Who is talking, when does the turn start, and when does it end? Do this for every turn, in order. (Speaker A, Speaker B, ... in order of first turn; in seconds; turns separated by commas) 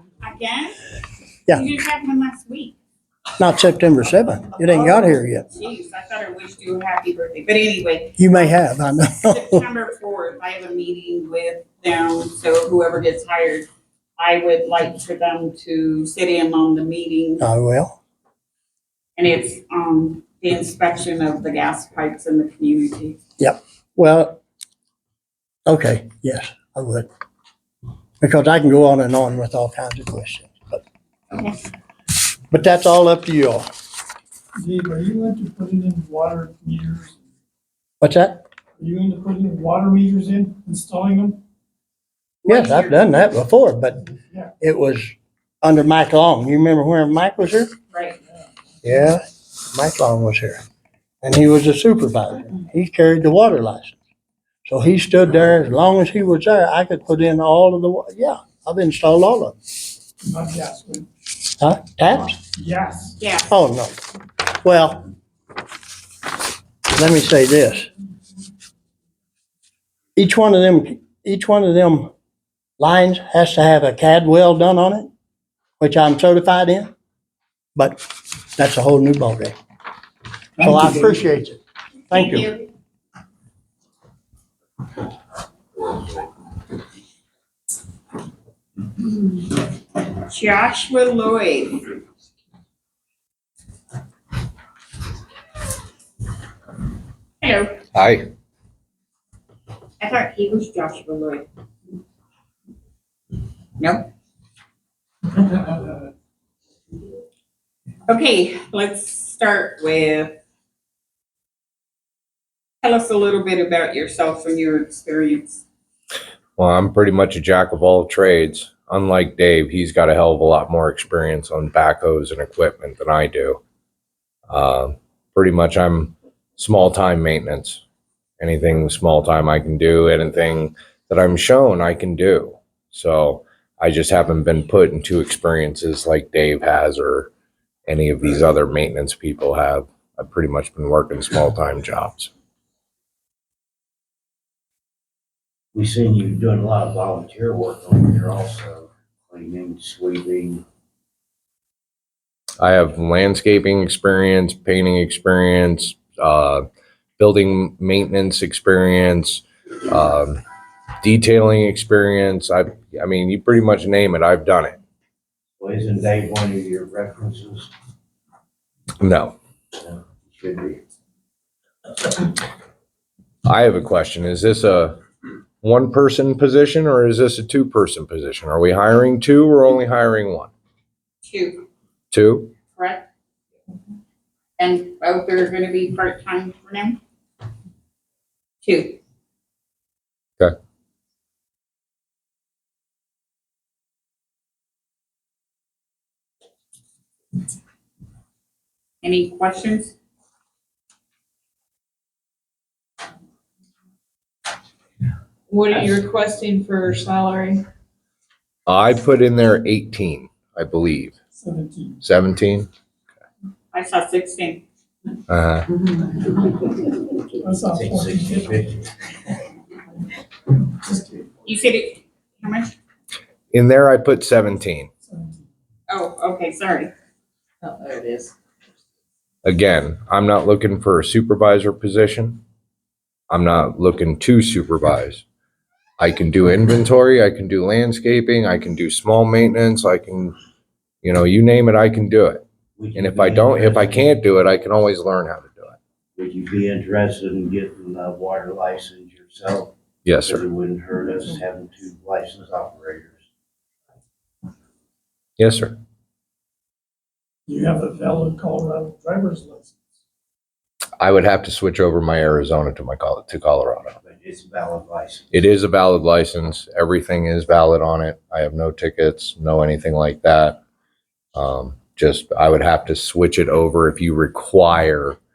Speaker A: 0.2-0.8, Speaker A: 1.5-2.8, Speaker B: 3.4-5.4, Speaker A: 4.7-13.7, Speaker B: 8.2-9.6, Speaker A: 14.2-17.4, Speaker B: 17.4-17.9, Speaker A: 19.1-23.2, Speaker B: 23.4-24.4, Speaker B: 25.6-27.1, Speaker B: 28.2-30.8, Speaker A: 31.3-31.6, Speaker B: 32.5-33.7, Speaker C: 34.6-37.1, Speaker B: 38.0-38.4, Speaker C: 38.8-41.4, Speaker A: 42.4-43.1, Speaker B: 42.5-44.1, Speaker B: 44.6-47.7, Speaker A: 47.9-48.2, Speaker B: 48.8-50.6, Speaker B: 51.2-54.0, Speaker B: 54.7-59.5, Speaker C: 60.2-61.1, Speaker B: 61.6-62.4, Speaker C: 62.6-63.1, Speaker A: 63.2-63.5, Speaker B: 63.5-63.9, Speaker B: 64.6-65.0, Speaker B: 66.9-67.9, Speaker B: 70.2-72.1, Speaker B: 72.8-75.1, Speaker B: 75.8-76.9, Speaker B: 77.8-78.0, Speaker B: 78.5-79.5, Speaker B: 80.6-81.6, Speaker A: 82.1-82.7, Speaker B: 82.1-82.5, Speaker A: 90.2-92.0, Speaker A: 97.4-97.8, Speaker D: 97.9-98.3, Speaker A: 100.0-101.4, Speaker A: 103.8-104.1, Speaker A: 108.1-110.4, Speaker A: 112.8-115.6, Speaker D: 116.6-123.6, Speaker D: 124.5-127.8, Speaker D: 128.4-137.3, Speaker D: 137.9-142.3, Speaker E: 145.7-150.6, Speaker D: 152.6-156.6, Speaker D: 157.2-160.4, Speaker D: 161.0-164.8, Speaker E: 165.6-167.7, Speaker D: 169.0-169.3, Speaker E: 169.8-170.8, Speaker D: 173.4-175.0, Speaker D: 175.6-180.5, Speaker A: 181.2-181.7, Speaker D: 182.1-182.5, Speaker A: 182.7-183.1, Speaker A: 184.6-187.0, Speaker A: 188.6-189.0, Speaker A: 199.0-199.9, Speaker F: 205.5-207.7, Speaker D: 208.7-211.1, Speaker C: 211.4-211.9, Speaker D: 212.0-212.7, Speaker A: 213.7-214.6, Speaker D: 215.3-215.7, Speaker C: 217.4-218.3, Speaker E: 217.7-218.9, Speaker A: 221.4-222.7, Speaker D: 223.5-224.9, Speaker C: 225.1-225.4, Speaker A: 225.9-226.9, Speaker F: 227.6-228.3, Speaker D: 229.4-232.4, Speaker D: 233.3-235.2, Speaker D: 236.0-240.3, Speaker D: 241.0-245.8, Speaker E: 242.8-244.1, Speaker E: 246.2-253.2, Speaker D: 250.0-250.4, Speaker D: 255.4-255.8, Speaker C: 257.5-259.7, Speaker D: 261.0-264.0, Speaker E: 264.0-265.5, Speaker D: 265.3-270.6, Speaker D: 271.3-275.2